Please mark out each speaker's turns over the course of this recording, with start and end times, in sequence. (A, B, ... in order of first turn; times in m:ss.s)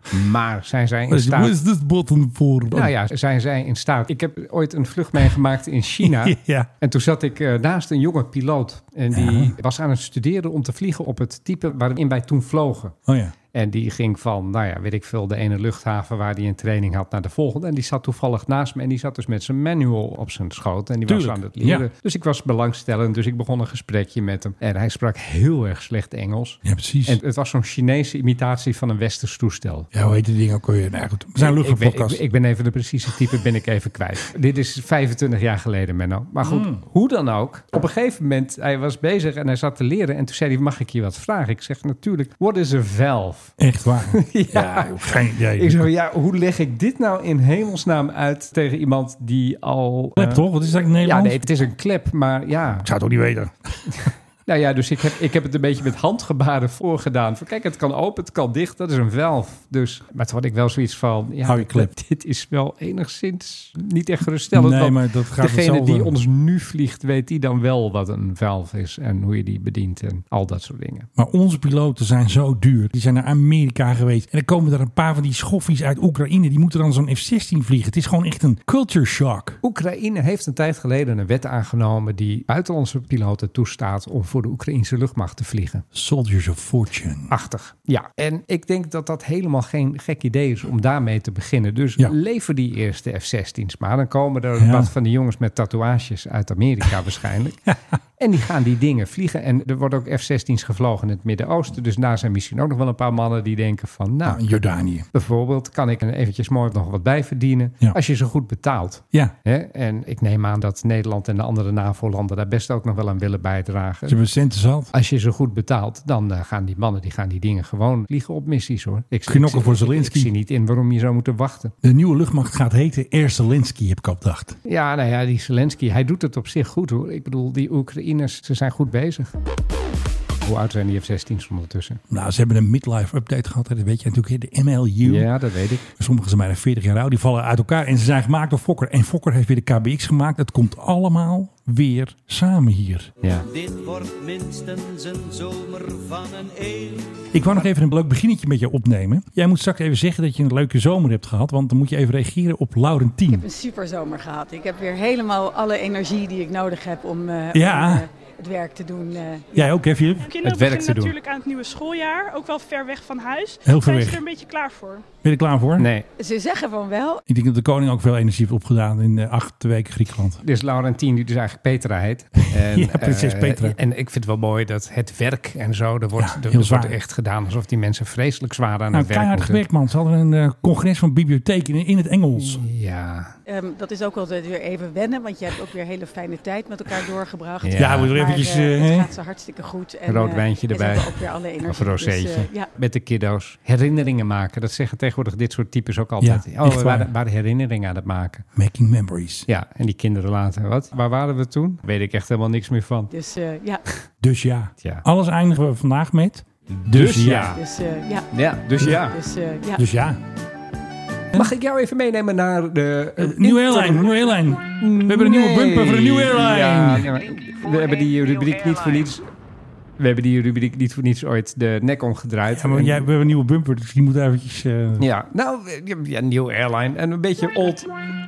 0:00.1-0:01.6 A
0:01.1-0:02.9 B
0:02.7-0:13.0 A
0:06.0-0:06.7 B
0:09.1-0:09.5 B
0:13.1-0:13.3 B
0:13.5-0:29.9 A
0:21.1-0:21.9 B
0:26.6-0:27.2 B
0:29.9-0:32.2 B
0:31.4-0:43.6 A
0:36.4-0:36.8 B
0:43.6-0:45.9 B
0:44.1-0:50.5 A
0:50.2-0:51.4 B
0:51.0-0:52.9 A
0:52.8-0:53.9 B
0:54.0-1:11.1 A
1:01.4-1:01.9 B
1:04.5-1:06.2 B
1:11.2-1:19.6 B
1:19.6-1:25.8 A
1:25.9-1:27.3 B
1:27.3-1:44.5 A
1:34.6-1:34.9 B
1:44.2-1:45.1 B
1:45.1-1:54.2 A
1:54.1-1:54.9 B
1:54.9-2:01.7 A
1:59.3-2:00.3 B
2:01.8-2:04.6 B
2:04.7-2:09.3 A
2:10.4-2:12.0 A
2:12.1-2:15.3 B
2:15.0-2:15.8 A
2:16.0-2:23.1 B
2:23.4-2:27.3 C
2:27.3-2:33.5 B
2:33.3-2:39.7 D
2:37.5-2:38.0 B
2:39.6-2:40.4 B
2:40.2-2:45.1 E
2:40.4-2:41.2 A
2:43.6-2:44.2 B
2:45.2-2:45.9 B
2:45.8-2:46.1 A
2:46.2-2:47.2 D
2:47.3-2:50.4 B
2:50.4-2:59.6 A
2:52.5-2:53.8 B
2:56.2-2:57.0 B
2:58.9-3:02.6 B
3:02.4-3:03.4 A
3:03.5-3:12.7 D
3:07.6-3:08.2 A
3:07.8-3:09.1 B
3:10.1-3:18.5 A
3:16.2-3:17.1 B
3:18.6-3:19.5 B
3:19.5-3:23.1 A
3:23.1-3:23.8 D
3:24.2-3:27.6 B
3:26.9-3:27.6 A
3:27.5-3:28.3 D
3:28.3-3:29.2 A
3:28.9-3:29.8 D
3:29.8-3:30.2 B
3:31.3-3:39.3 A
3:33.2-3:37.1 B
3:40.0-3:43.1 A
3:42.5-3:45.1 B
3:45.0-3:47.9 A